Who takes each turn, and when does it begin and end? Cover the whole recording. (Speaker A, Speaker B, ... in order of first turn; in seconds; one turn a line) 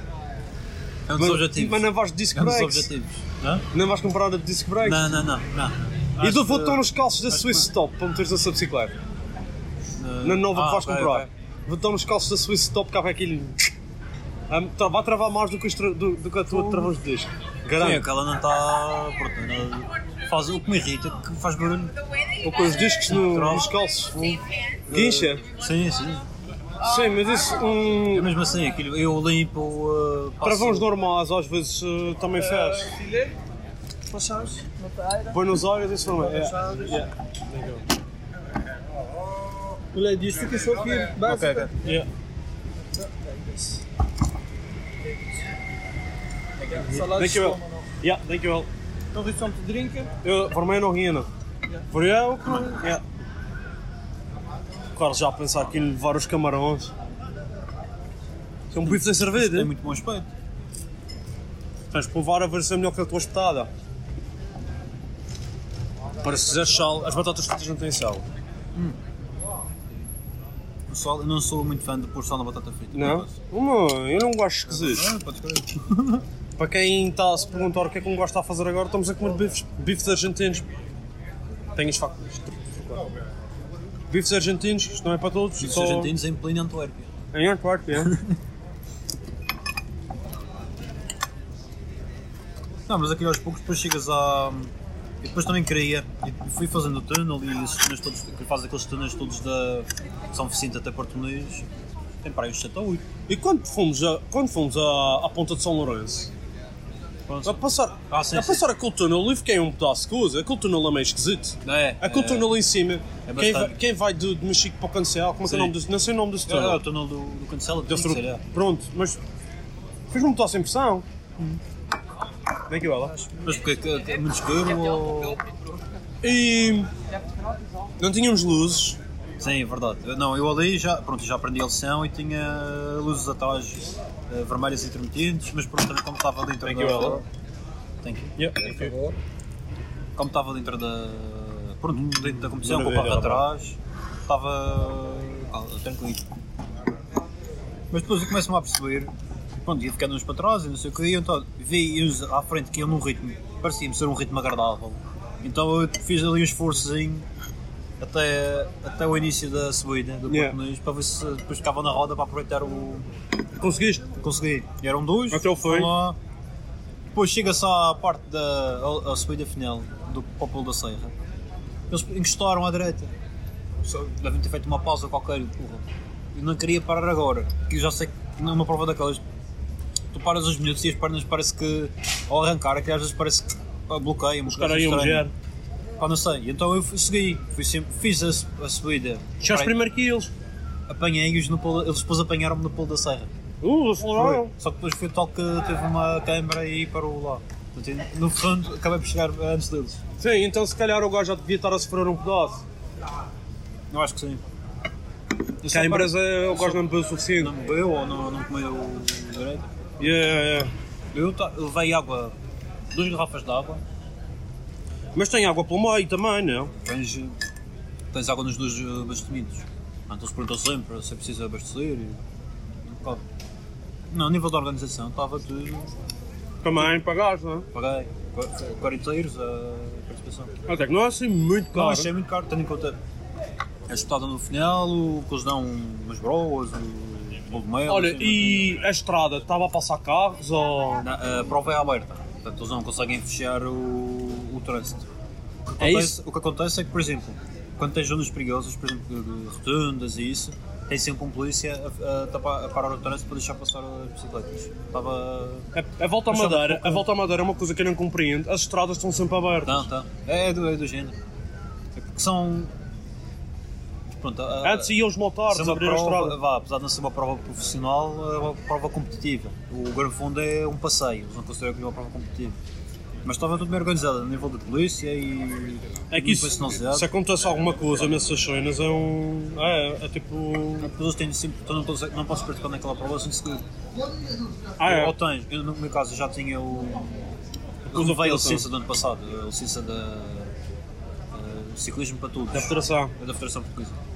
Speaker A: 1.1-3.7
Speaker B: 1.2-2.9
Speaker B: 3.7-5.1
Speaker A: 4.8-7.7
Speaker B: 6.2-8.9
Speaker A: 10.0-11.3
Speaker B: 10.2-13.7
Speaker B: 14.5-18.1
Speaker A: 16.5-16.9
Speaker A: 17.8-21.9
Speaker B: 22.4-25.4
Speaker A: 23.1-23.7
Speaker A: 24.9-26.2
Speaker B: 26.8-28.3
Speaker A: 28.1-30.9
Speaker B: 30.4-33.0
Speaker C: 32.9-33.3
Speaker C: 34.1-35.2
Speaker B: 35.3-37.8
Speaker C: 36.2-37.0
Speaker C: 39.9-41.7
Speaker A: 41.2-41.7
Speaker B: 41.8-42.1
Speaker C: 43.2-43.8
Speaker C: 46.6-47.7
Speaker B: 47.0-48.7
Speaker C: 49.1-50.1
Speaker B: 50.2-51.3
Speaker B: 51.9-53.0
Speaker B: 55.0-56.9
Speaker B: 58.7-59.7
Speaker A: 58.8-60.3
Speaker B: 61.9-63.7
Speaker B: 66.2-68.2
Speaker A: 70.9-73.4
Speaker B: 72.9-75.1
Speaker A: 74.7-76.2
Speaker B: 76.6-80.7
Speaker B: 81.8-83.1
Speaker B: 84.1-86.2
Speaker A: 85.6-87.1
Speaker B: 87.3-88.2
Speaker A: 88.0-88.3
Speaker A: 92.9-101.7
Speaker A: 102.2-103.1
Speaker B: 103.3-106.3
Speaker A: 107.3-108.7
Speaker B: 107.5-116.8
Speaker A: 111.6-112.5
Speaker A: 113.3-113.8
Speaker A: 115.5-115.8
Speaker A: 116.5-118.4
Speaker B: 117.9-119.2
Speaker B: 120.1-121.0
Speaker B: 122.7-123.2
Speaker A: 123.2-125.5
Speaker B: 126.2-126.9
Speaker B: 128.0-129.0
Speaker A: 129.4-137.2
Speaker B: 136.6-137.2
Speaker A: 138.0-138.3
Speaker B: 138.4-139.0
Speaker C: 138.7-139.2
Speaker A: 140.2-146.2
Speaker B: 141.9-143.5
Speaker A: 147.9-157.3
Speaker A: 158.0-163.1
Speaker B: 160.3-160.6
Speaker B: 163.6-164.1
Speaker A: 164.2-166.2
Speaker B: 165.3-165.9
Speaker A: 167.1-171.2
Speaker A: 171.9-173.1
Speaker A: 173.8-179.2
Speaker A: 180.1-185.3
Speaker B: 184.5-185.3
Speaker A: 186.0-189.8
Speaker B: 189.4-190.3
Speaker A: 190.9-193.3
Speaker B: 193.6-194.5
Speaker A: 194.1-200.0
Speaker B: 200.2-202.6
Speaker A: 203.9-204.5
Speaker A: 205.6-209.7
Speaker B: 205.7-207.5
Speaker B: 210.0-210.7
Speaker A: 211.1-212.3
Speaker A: 212.9-213.8
Speaker B: 215.2-216.7
Speaker A: 216.8-217.4
Speaker A: 218.1-222.2
Speaker A: 222.8-223.2
Speaker A: 224.1-225.9
Speaker B: 226.6-227.7
Speaker A: 227.7-230.5
Speaker B: 230.7-232.1
Speaker A: 231.7-233.0
Speaker A: 233.9-238.8
Speaker B: 237.9-241.1
Speaker A: 241.0-245.1
Speaker A: 245.7-255.7
Speaker B: 245.8-246.2
Speaker B: 255.7-259.9
Speaker A: 256.3-257.1
Speaker A: 259.6-261.2
Speaker A: 261.9-262.7
Speaker A: 264.1-272.6
Speaker B: 264.6-266.4
Speaker A: 273.2-277.1
Speaker B: 276.1-280.9
Speaker A: 280.8-283.6
Speaker B: 284.8-285.1
Speaker A: 284.8-287.3
Speaker B: 287.9-288.7
Speaker A: 287.9-290.5
Speaker A: 291.3-294.0
Speaker B: 292.5-293.1